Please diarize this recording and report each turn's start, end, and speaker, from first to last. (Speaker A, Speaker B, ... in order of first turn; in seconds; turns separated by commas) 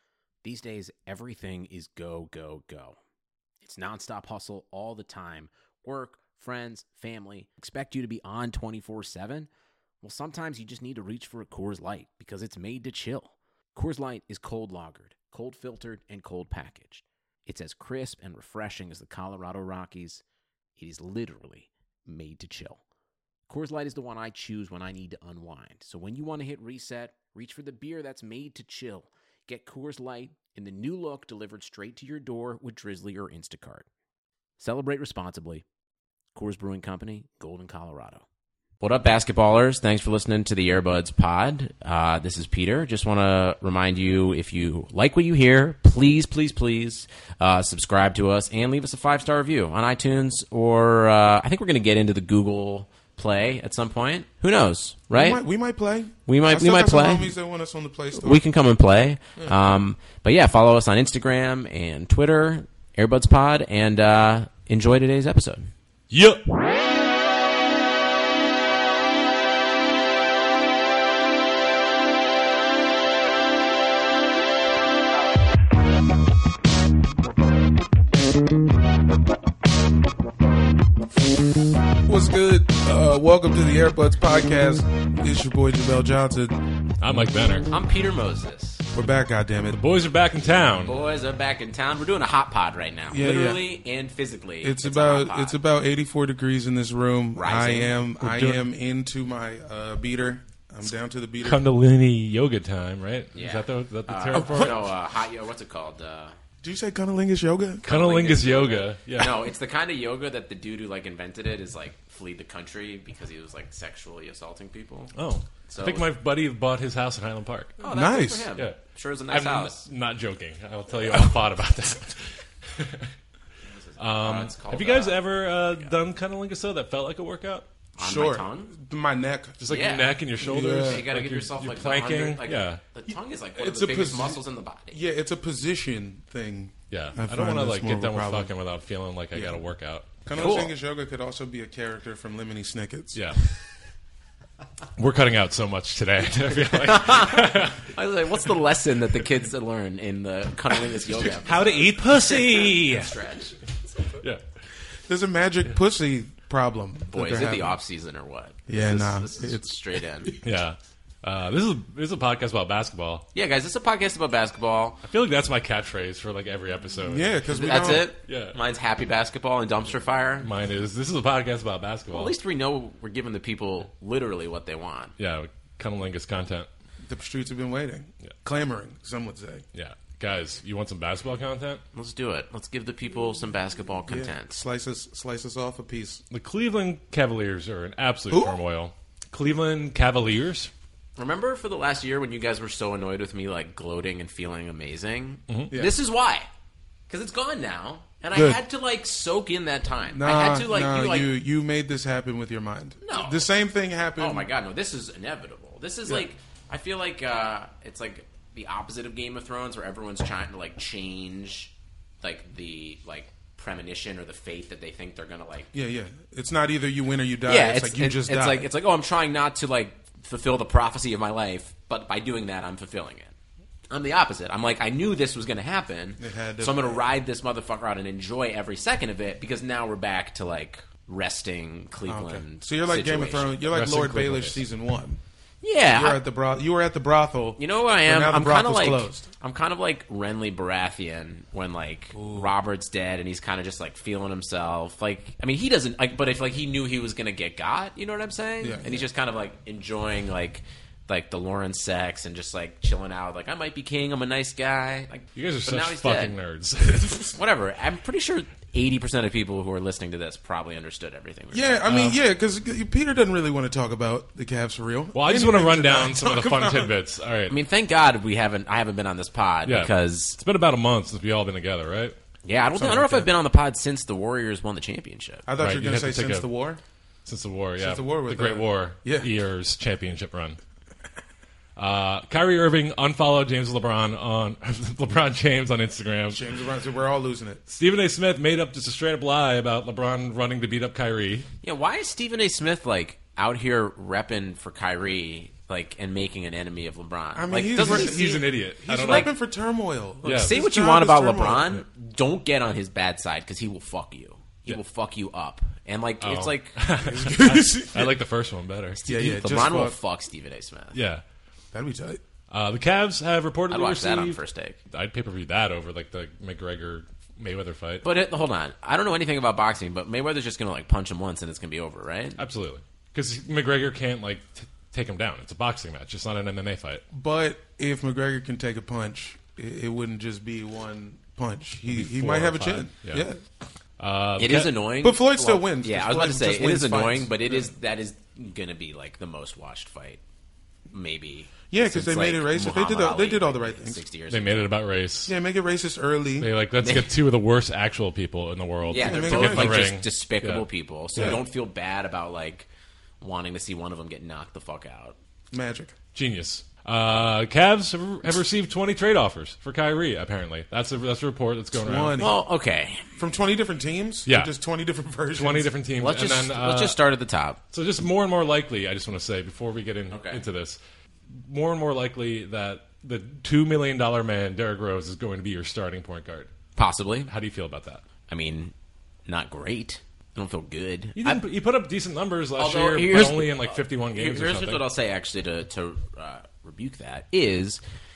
Speaker A: 0.4-3.0, Speaker A: 3.6-9.5, Speaker A: 10.0-20.2, Speaker A: 20.8-22.8, Speaker A: 23.5-33.9, Speaker A: 34.6-35.6, Speaker A: 36.3-38.2, Speaker A: 38.8-55.4, Speaker B: 55.1-58.4, Speaker A: 56.2-57.3, Speaker A: 58.2-65.7, Speaker C: 66.1-66.4, Speaker B: 82.0-86.6, Speaker C: 87.0-87.7, Speaker A: 87.7-88.8, Speaker B: 88.9-89.8, Speaker C: 89.7-90.9, Speaker A: 90.8-95.6, Speaker B: 93.1-93.6, Speaker B: 94.6-101.6, Speaker A: 97.4-98.0, Speaker C: 98.2-98.6, Speaker C: 101.4-104.8, Speaker A: 103.3-106.3, Speaker B: 104.3-104.7, Speaker B: 106.6-107.8, Speaker A: 107.8-115.1, Speaker C: 107.9-109.4, Speaker C: 115.2-117.8, Speaker A: 115.7-116.0, Speaker A: 117.8-119.8, Speaker B: 117.9-118.5, Speaker C: 119.3-123.1, Speaker A: 123.7-125.2, Speaker C: 124.0-127.7, Speaker A: 128.0-128.7, Speaker B: 128.0-129.6, Speaker C: 129.6-132.8, Speaker A: 129.7-130.1, Speaker B: 130.4-131.0, Speaker A: 130.8-135.0, Speaker B: 133.6-134.4, Speaker B: 134.9-138.5, Speaker C: 136.9-140.3, Speaker B: 139.3-139.6, Speaker B: 140.2-143.2, Speaker A: 140.3-140.7, Speaker C: 145.0-147.9, Speaker A: 146.7-153.6, Speaker B: 151.4-151.7, Speaker C: 151.4-153.2, Speaker C: 154.1-154.4, Speaker B: 155.1-157.8, Speaker A: 157.1-160.3, Speaker B: 158.7-159.7, Speaker C: 160.4-163.2, Speaker A: 163.3-165.0, Speaker C: 165.0-168.6, Speaker B: 167.0-168.1, Speaker A: 167.4-170.5, Speaker C: 170.4-172.3, Speaker A: 172.1-175.1, Speaker C: 175.2-176.7, Speaker B: 177.0-179.6, Speaker C: 179.7-181.8, Speaker A: 181.9-184.6, Speaker B: 184.1-186.2, Speaker C: 186.3-190.7, Speaker B: 188.3-188.6, Speaker A: 191.2-196.5, Speaker A: 197.1-201.3, Speaker B: 200.1-204.5, Speaker A: 203.0-203.4, Speaker A: 204.2-211.7, Speaker A: 212.2-215.7, Speaker B: 215.7-218.7, Speaker A: 217.4-223.3, Speaker A: 223.9-233.7, Speaker B: 226.2-227.1, Speaker B: 232.0-235.2, Speaker C: 233.7-234.6, Speaker A: 235.6-236.2, Speaker B: 235.9-239.3, Speaker A: 237.6-256.4, Speaker B: 242.1-242.5, Speaker B: 248.6-249.1, Speaker C: 255.3-257.4, Speaker A: 257.3-261.8, Speaker B: 261.5-266.9, Speaker C: 261.9-262.2, Speaker C: 265.1-267.5, Speaker A: 267.5-270.4, Speaker C: 269.6-272.1, Speaker A: 272.4-275.4, Speaker B: 272.7-273.3, Speaker B: 275.4-276.8, Speaker C: 275.6-276.5, Speaker C: 277.2-280.6, Speaker B: 277.8-279.3, Speaker C: 281.8-286.4, Speaker B: 286.3-287.6, Speaker C: 287.7-291.5, Speaker A: 291.6-299.3, Speaker B: 297.3-301.8, Speaker C: 297.7-299.3, Speaker C: 300.2-300.6, Speaker A: 300.2-306.7, Speaker C: 306.2-309.0, Speaker B: 307.1-308.1, Speaker A: 309.0-311.0, Speaker B: 309.0-310.0, Speaker C: 310.9-311.2, Speaker B: 311.7-312.2, Speaker C: 312.5-314.4, Speaker A: 313.7-314.8, Speaker C: 314.9-318.0, Speaker A: 318.0-322.4, Speaker C: 322.4-327.0, Speaker B: 327.1-333.4, Speaker C: 331.9-333.2, Speaker C: 334.0-334.7, Speaker A: 334.4-340.2, Speaker B: 335.0-337.7, Speaker A: 340.9-344.7, Speaker B: 341.7-344.0, Speaker C: 344.3-345.3, Speaker B: 345.2-346.5, Speaker C: 346.4-351.4, Speaker A: 346.8-347.1, Speaker A: 348.9-352.6, Speaker B: 348.9-349.9, Speaker A: 353.2-355.1, Speaker B: 355.5-355.9, Speaker C: 356.1-362.2, Speaker B: 361.8-362.4, Speaker A: 362.2-363.1, Speaker B: 363.1-365.7, Speaker C: 364.2-364.5, Speaker C: 365.3-367.0, Speaker A: 366.0-367.6, Speaker C: 367.7-370.8, Speaker A: 370.1-370.4, Speaker C: 371.3-376.5, Speaker A: 376.8-377.3, Speaker C: 377.3-378.0, Speaker A: 378.3-378.7, Speaker A: 379.3-381.4, Speaker C: 381.2-384.8, Speaker A: 382.6-387.8